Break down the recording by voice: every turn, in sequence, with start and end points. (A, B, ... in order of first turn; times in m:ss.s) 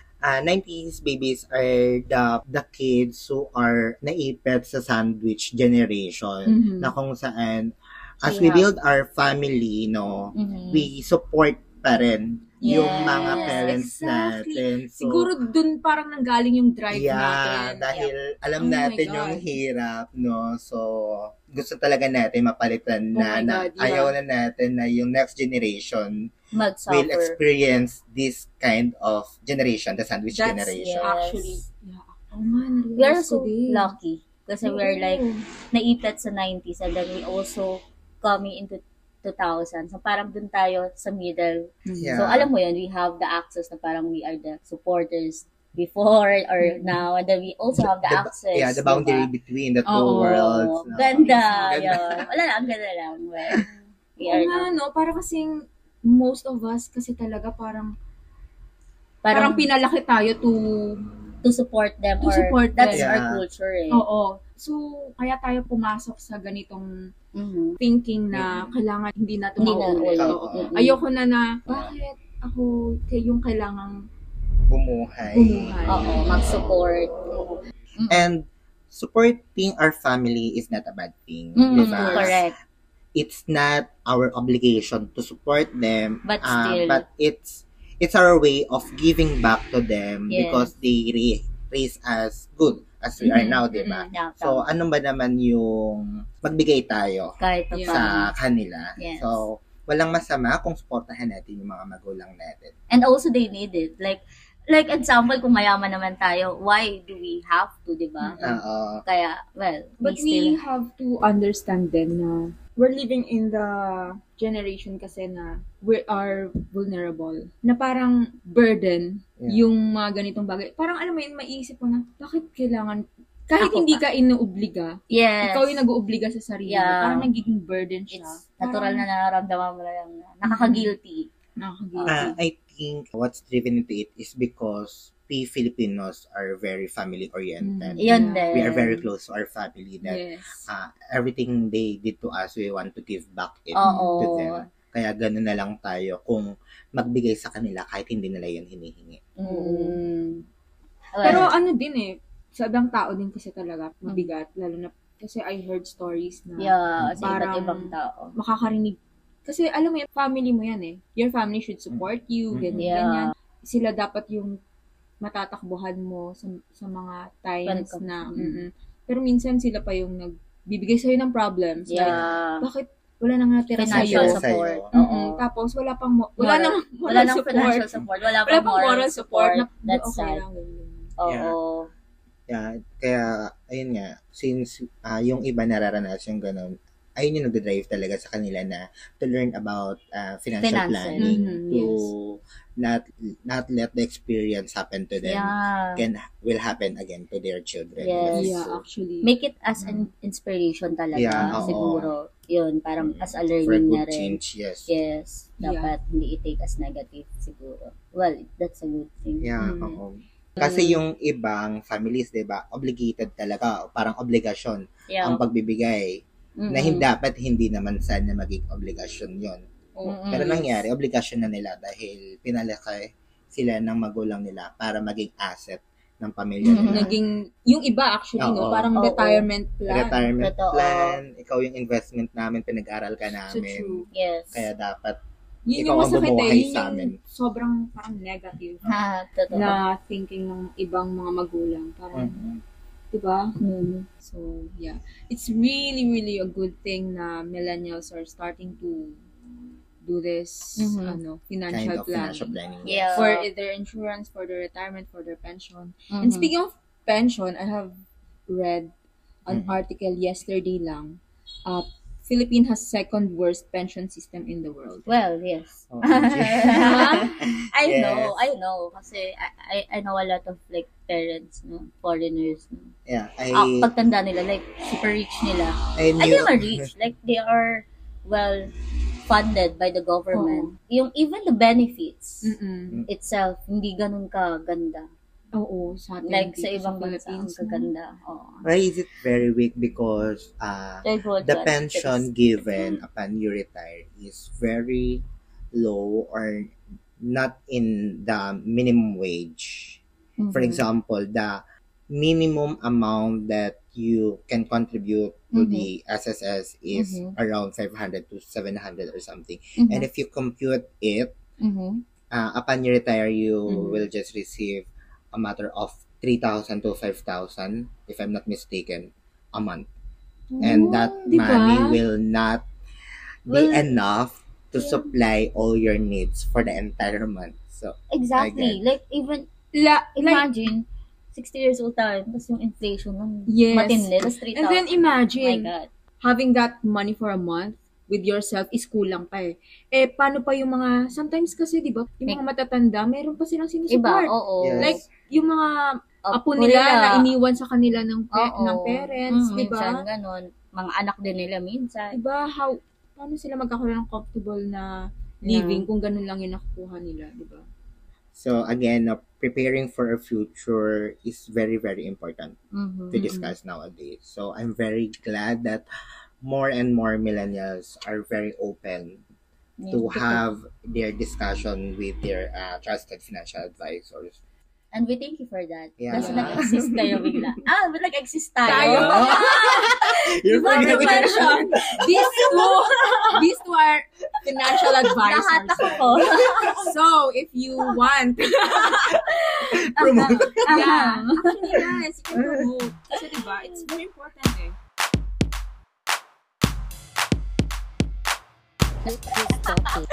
0:00.2-0:15.3 A
0:06.5-0:07.0 B
0:08.2-0:08.7 C
0:10.3-0:10.9 C
0:12.6-0:17.9 B
0:12.6-0:13.8 C
0:16.9-0:26.3 A
0:18.6-0:19.5 B
0:23.2-0:24.2 B
0:26.5-0:27.4 C
0:26.9-0:31.1 A
0:30.3-0:33.9 B
0:30.8-0:31.6 C
0:33.0-0:49.3 C
0:34.6-0:35.4 B
0:41.9-0:42.2 B
0:42.0-0:42.5 A
0:46.6-0:47.0 B
0:48.0-0:52.3 A
0:49.8-0:50.5 B
0:50.1-0:54.7 C
0:51.2-0:52.0 B
0:54.2-0:57.9 B
0:59.2-0:59.7 C
0:59.3-1:01.0 B
1:01.4-1:04.0 C
1:02.2-1:03.1 B
1:02.9-1:03.4 A
1:03.9-1:06.9 B
1:07.4-1:07.8 C
1:07.8-1:14.0 B
1:08.3-1:08.7 A
1:09.6-1:11.0 C
1:10.2-1:10.7 A
1:11.7-1:11.9 A
1:14.7-1:16.5 A
1:15.3-1:16.3 B
1:15.9-1:17.4 C
1:18.0-1:18.3 C
1:18.1-1:22.5 A
1:21.6-1:22.6 C
1:21.7-1:22.4 B
1:23.2-1:42.7 A
1:26.2-1:27.0 C
1:30.3-1:30.7 C
1:33.2-1:34.7 C
1:37.4-1:38.3 C
1:37.7-1:38.1 B
1:39.0-1:39.4 C
1:42.9-1:48.4 C
1:48.2-1:48.6 B
1:48.4-1:49.0 A
1:49.0-1:50.6 C
1:50.0-2:09.1 B
1:59.4-1:59.7 A
2:03.6-2:04.0 C
2:05.1-2:05.8 C
2:06.7-2:07.3 C
2:08.1-2:11.3 C
2:10.4-2:10.9 B
2:11.6-2:12.3 B
2:12.0-2:12.4 C
2:12.1-2:29.2 A
2:17.6-2:18.7 B
2:18.0-2:19.1 C
2:20.0-2:20.6 B
2:23.7-2:24.6 C
2:23.8-2:24.3 B
2:29.4-2:30.4 C
2:29.4-2:30.0 B
2:31.1-2:31.5 C
2:31.2-2:44.6 B
2:31.2-2:31.5 A
2:36.6-2:38.4 C
2:37.0-2:37.5 A
2:42.5-2:42.9 A
2:42.7-2:43.3 C
2:45.2-2:57.9 B
2:47.7-2:48.6 C
2:51.9-2:52.6 C
2:52.0-2:52.4 A
2:53.8-2:55.4 C
2:53.9-2:54.9 A
2:56.4-3:00.4 C
2:58.4-3:01.1 B
3:01.2-3:01.9 C
3:01.3-3:01.6 A
3:02.5-3:18.8 A
3:10.6-3:11.4 C
3:11.2-3:12.1 B
3:15.2-3:16.0 C
3:18.0-3:18.6 C
3:18.3-3:19.3 B
3:19.2-3:29.5 C
3:19.8-3:20.0 A
3:21.1-3:22.1 A
3:21.4-3:22.0 B
3:23.0-3:24.9 A
3:25.6-3:25.9 B
3:29.4-3:39.6 A
3:29.6-3:30.0 B
3:30.6-3:31.0 C
3:35.1-3:35.4 C
3:36.6-3:37.1 C
3:40.0-3:40.8 C
3:40.3-3:47.1 A
3:46.6-3:47.2 C
3:46.7-3:50.3 B
3:48.4-3:48.9 A
3:49.0-3:49.5 C
3:49.9-3:55.2 A
3:50.4-3:51.2 C
3:53.5-3:54.1 B
3:54.1-3:54.7 C
3:55.7-3:58.9 B
3:55.8-3:57.2 A
3:58.8-3:59.8 C
3:59.5-4:02.4 B
4:02.1-4:02.6 A
4:03.1-4:03.5 B
4:03.6-4:04.1 C
4:04.2-4:09.2 B
4:10.0-4:12.6 B
4:10.8-4:11.2 C
4:11.7-4:13.3 A
4:12.8-4:13.5 C
4:13.2-4:18.0 B
4:16.1-4:16.5 C
4:18.5-4:18.9 B
4:19.5-4:25.1 B
4:19.5-4:19.8 A
4:25.1-4:32.9 C
4:25.9-4:28.4 A
4:26.6-4:27.3 B
4:33.1-4:33.9 A
4:33.5-4:38.7 C
4:36.0-4:36.9 A
4:39.3-4:42.6 C
4:40.3-4:40.7 B
4:42.4-4:43.0 B
4:43.1-4:45.1 C
4:45.5-4:47.9 B
4:46.2-4:48.7 C
4:48.6-4:55.2 A
4:51.0-4:53.0 C
4:55.8-5:00.0 A
5:00.4-5:00.8 C
5:00.5-5:11.4 A
5:05.5-5:05.9 C
5:06.9-5:07.4 C
5:09.8-5:10.1 C
5:11.6-5:12.0 C
5:12.3-5:19.9 A
5:13.7-5:14.0 C
5:20.6-5:21.2 C
5:20.6-5:22.0 B
5:20.6-5:22.6 A
5:23.5-5:28.8 A
5:23.5-5:23.9 C
5:24.8-5:25.1 C
5:28.1-5:29.5 C
5:29.7-5:30.5 B
5:30.2-5:35.9 C
5:33.5-5:35.7 B
5:36.2-5:45.8 B
5:43.9-5:45.0 C
5:44.6-5:45.0 A
5:46.2-5:47.3 C
5:46.3-5:50.0 B
5:48.3-5:52.2 C
5:52.1-5:54.9 B
5:55.4-5:57.7 B
5:55.4-5:55.9 C
5:58.4-6:02.6 A
6:02.7-6:03.6 C
6:03.1-6:05.8 A
6:06.4-6:09.2 A
6:09.8-6:10.4 C
6:09.9-6:14.4 A
6:14.9-6:21.8 C
6:16.0-6:17.4 A
6:16.1-6:16.5 B
6:18.6-6:19.8 B
6:18.7-6:22.7 A
6:20.6-6:26.0 B
6:23.1-6:23.3 C
6:25.2-6:26.8 C
6:25.8-6:26.8 A
6:26.7-6:29.2 B
6:29.1-6:30.9 A
6:30.0-6:31.8 C
6:30.7-6:34.8 B
6:32.4-6:32.7 A
6:39.7-6:40.0 C